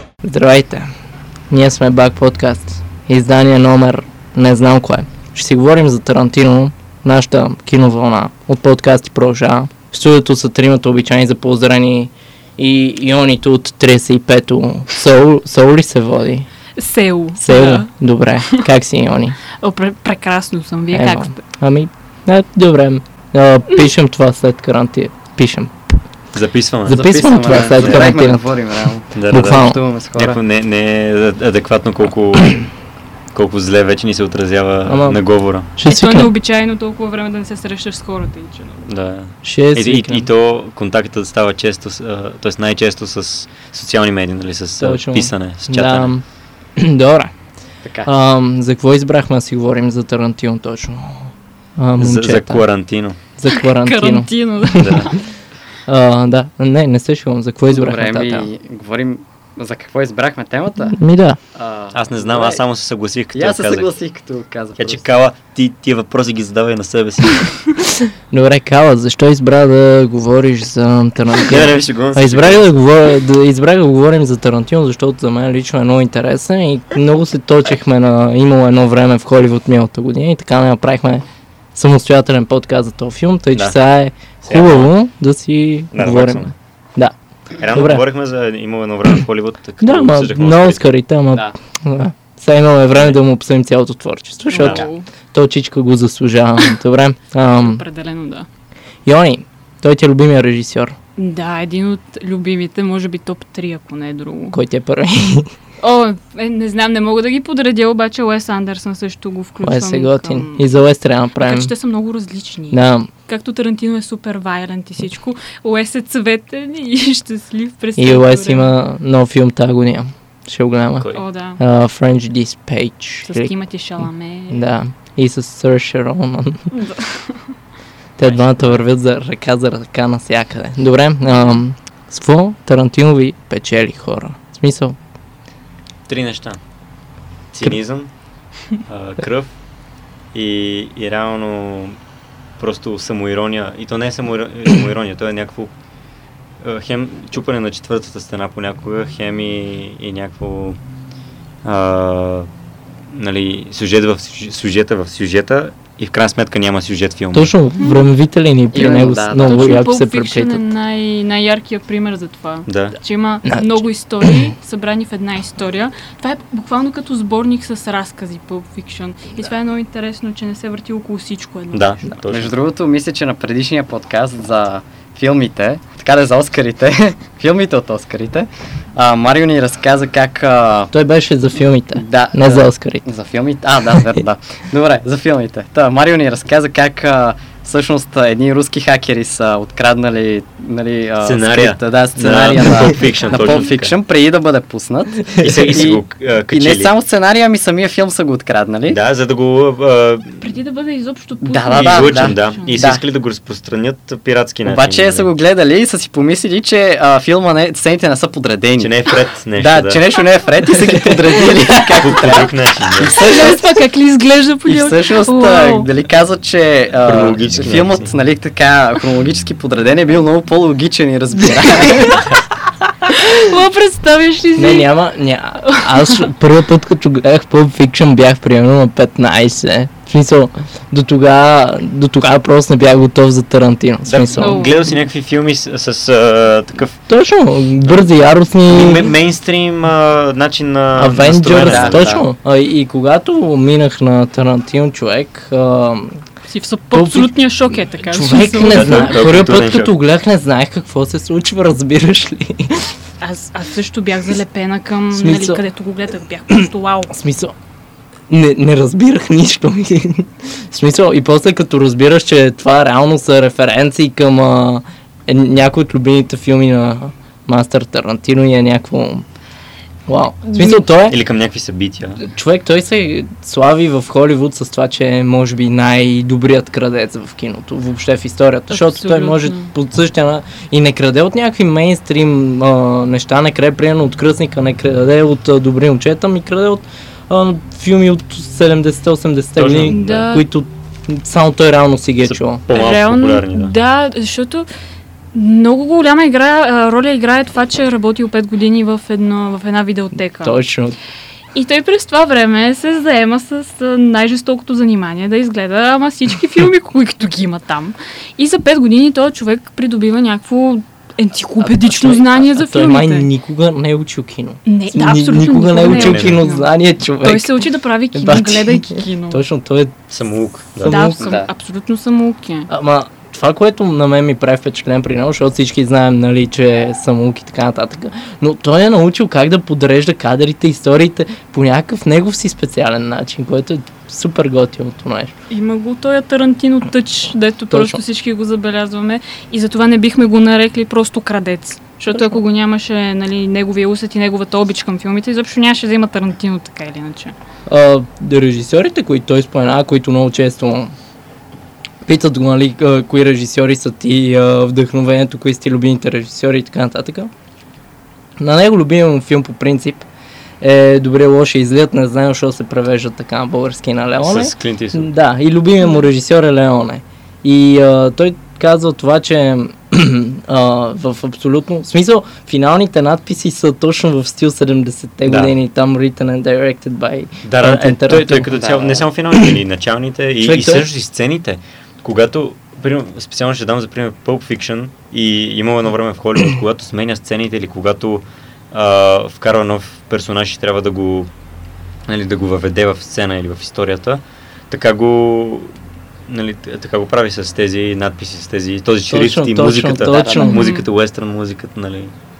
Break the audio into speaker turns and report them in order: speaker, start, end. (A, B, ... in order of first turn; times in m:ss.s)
0:00.2-0:00.9 A
0:01.5-0:16.5 A
0:16.8-0:17.9 B
0:17.4-0:19.4 A
0:19.6-0:21.4 B
0:20.9-0:25.7 A
0:26.3-0:28.1 C
0:26.9-0:28.5 A
0:26.9-0:30.4 D
0:29.1-0:32.6 C
0:29.3-0:29.8 A
0:33.3-0:35.7 C
0:34.8-0:35.2 A
0:35.7-0:36.3 A
0:35.8-0:38.9 B
0:38.9-0:46.1 C
0:39.4-0:40.3 A
0:44.8-0:46.2 A
0:46.8-0:47.3 A
0:47.8-0:48.1 D
0:48.0-0:52.6 A
0:52.0-0:53.2 C
0:53.4-0:55.2 A
0:53.5-0:55.2 B
0:54.8-0:55.1 C
0:55.9-0:58.5 A
0:57.7-1:01.0 D
1:00.9-1:01.4 A
1:01.5-1:02.6 D
1:01.9-1:03.9 C
1:03.3-1:05.0 D
1:04.8-1:07.5 C
1:08.3-1:27.1 A
1:11.3-1:12.7 C
1:24.4-1:24.9 C
1:25.9-1:26.5 C
1:27.6-1:30.8 C
1:27.7-1:28.0 A
1:29.8-1:37.8 A
1:34.5-1:35.1 B
1:34.6-1:34.8 C
1:37.4-1:38.5 B
1:39.0-1:41.0 A
1:41.2-1:44.6 B
1:44.5-1:45.5 A
1:45.8-1:50.6 B
1:49.6-1:51.7 A
1:51.4-1:58.7 B
1:52.7-1:53.1 A
1:58.0-2:03.5 A
2:01.0-2:01.2 C
2:01.1-2:01.6 B
2:03.2-2:04.6 B
2:04.5-2:06.7 A
2:06.7-2:07.4 B
2:08.2-2:15.0 A
2:08.2-2:08.8 C
2:16.1-2:16.6 C
2:17.5-2:18.1 C
2:18.9-2:19.5 C
2:20.3-2:22.0 C
2:22.6-2:25.7 C
2:26.6-2:30.8 C
2:31.6-2:32.5 C
2:33.1-2:37.5 C
2:37.3-2:40.6 A
2:37.8-2:38.0 B
2:38.7-2:39.8 D
2:38.8-2:52.0 B
2:42.7-2:43.0 C
2:43.5-2:43.8 A
2:51.7-2:52.5 C
2:52.3-3:00.9 D
3:00.9-3:03.0 A
3:02.0-3:19.0 D
3:11.2-3:14.0 C
3:13.0-3:13.6 B
3:15.4-3:16.9 C
3:18.9-3:20.4 C
3:20.4-3:22.7 B
3:21.4-3:23.0 D
3:21.7-3:25.3 C
3:24.6-3:28.9 D
3:28.8-3:30.0 C
3:29.6-3:33.6 D
3:32.0-3:33.2 C
3:33.2-3:35.9 B
3:34.6-3:42.3 D
3:37.0-3:38.1 C
3:41.8-3:42.2 B
3:43.1-3:44.9 B
3:44.6-3:54.6 A
3:45.7-3:46.3 B
3:54.0-3:57.1 C
3:54.4-3:54.8 B
3:57.1-3:59.1 A
3:57.8-4:02.2 C
4:00.9-4:06.2 A
4:01.5-4:02.2 D
4:06.5-4:09.2 B
4:06.9-4:07.3 A
4:08.1-4:12.9 A
4:08.7-4:10.0 C
4:13.2-4:17.2 B
4:15.1-4:15.6 A
4:16.6-4:17.5 A
4:18.3-4:29.2 A
4:30.1-4:31.2 A
4:30.5-4:30.8 B
4:31.0-4:32.2 C
4:32.2-4:52.6 A
4:38.7-4:39.7 B
4:49.6-4:50.3 C
4:49.9-4:50.4 B
4:52.2-4:53.7 C
4:52.7-4:54.7 B
4:55.3-5:00.6 B
5:00.4-5:01.0 A
5:01.5-5:13.3 B
5:11.6-5:17.5 A
5:14.6-5:19.4 B
5:15.8-5:16.4 C
5:18.1-5:19.9 A
5:20.1-5:21.1 C
5:20.8-5:21.2 A
5:20.9-5:22.7 B
5:21.2-5:21.5 D
5:22.7-5:35.3 A
5:35.5-5:47.3 B
5:37.7-5:38.0 A
5:42.1-5:42.4 A
5:47.7-5:50.9 A
5:52.0-5:57.3 A
5:58.4-6:00.0 A
6:00.6-6:18.5 A
6:04.2-6:05.1 C
6:05.8-6:06.1 B
6:15.3-6:15.5 C
6:17.4-6:31.3 C
6:18.5-6:19.0 D
6:20.4-6:20.8 A
6:32.0-6:35.7 C
6:36.3-6:42.1 C
6:39.1-6:40.6 A
6:40.1-6:40.5 D
6:40.3-6:40.9 B